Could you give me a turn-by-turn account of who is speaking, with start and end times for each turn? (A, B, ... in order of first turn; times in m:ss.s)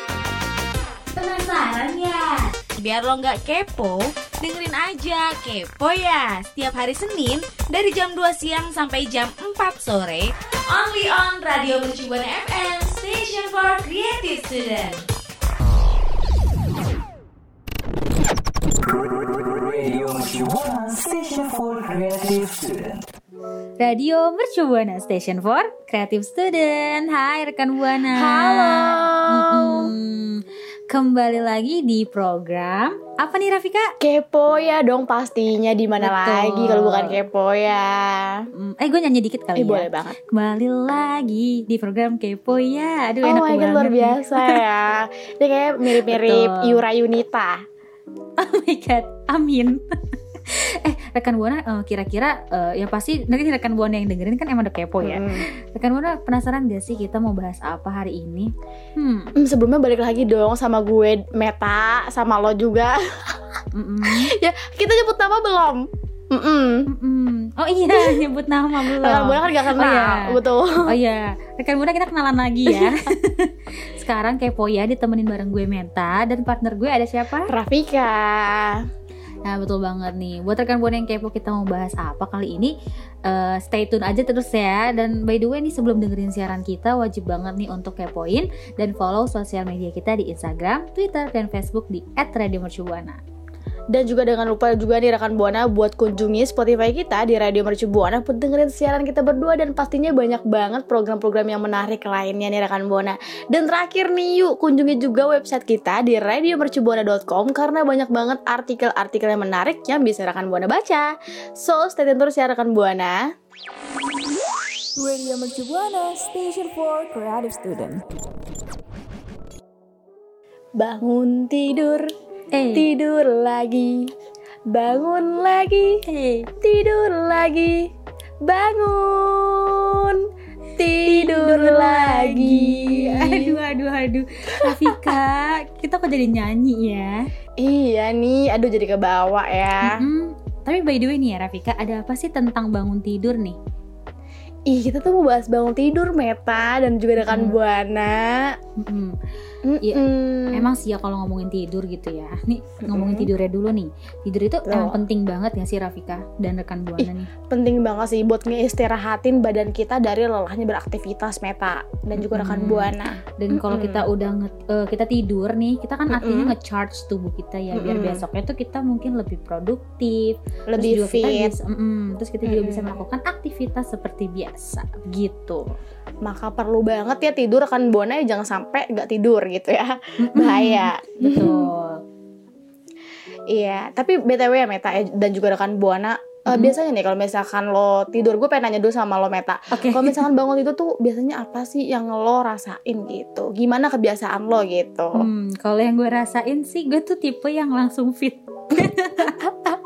0:01.1-0:15.0 A
0:19.3-0:23.0 B
0:23.8-0:33.9 C
0:28.1-0:29.9 D
0:34.0-0:38.4 D
0:36.0-0:37.2 C
0:38.6-0:44.6 C
0:39.6-0:40.2 D
0:43.2-0:47.6 D
0:46.0-0:46.8 C
0:48.4-0:49.8 C
0:50.5-0:59.3 C
0:55.0-0:55.4 D
0:59.4-1:03.3 D
1:03.7-1:04.3 C
1:04.1-1:06.8 D
1:06.9-1:10.3 C
1:07.9-1:08.2 D
1:08.8-1:10.9 D
1:10.9-1:17.5 C
1:12.7-1:12.9 D
1:17.5-1:18.8 D
1:19.4-1:22.7 C
1:23.3-1:33.2 C
1:33.9-1:53.2 D
1:55.0-1:58.0 E
2:00.8-2:02.1 D
2:02.5-2:02.9 C
2:02.8-2:04.0 D
2:04.7-2:05.9 D
2:06.1-2:06.5 C
2:06.6-2:07.8 D
2:08.4-2:10.2 D
2:10.8-2:13.6 D
2:11.1-2:17.2 C
2:14.6-2:15.1 D
2:17.6-2:20.0 D
2:19.8-2:23.6 C
2:24.7-2:28.5 D
2:27.2-2:27.6 C
2:28.8-2:29.2 C
2:29.7-2:30.6 D
2:29.8-2:37.3 C
2:32.9-2:33.3 D
2:34.7-2:35.0 D
2:37.0-2:44.0 D
2:42.2-2:55.6 C
2:46.1-2:46.5 D
2:47.7-2:48.2 D
2:50.7-2:51.5 D
2:52.4-2:53.0 D
2:56.2-3:01.6 D
3:00.2-3:02.0 C
3:03.5-3:15.2 D
3:09.7-3:10.2 C
3:15.2-3:19.4 C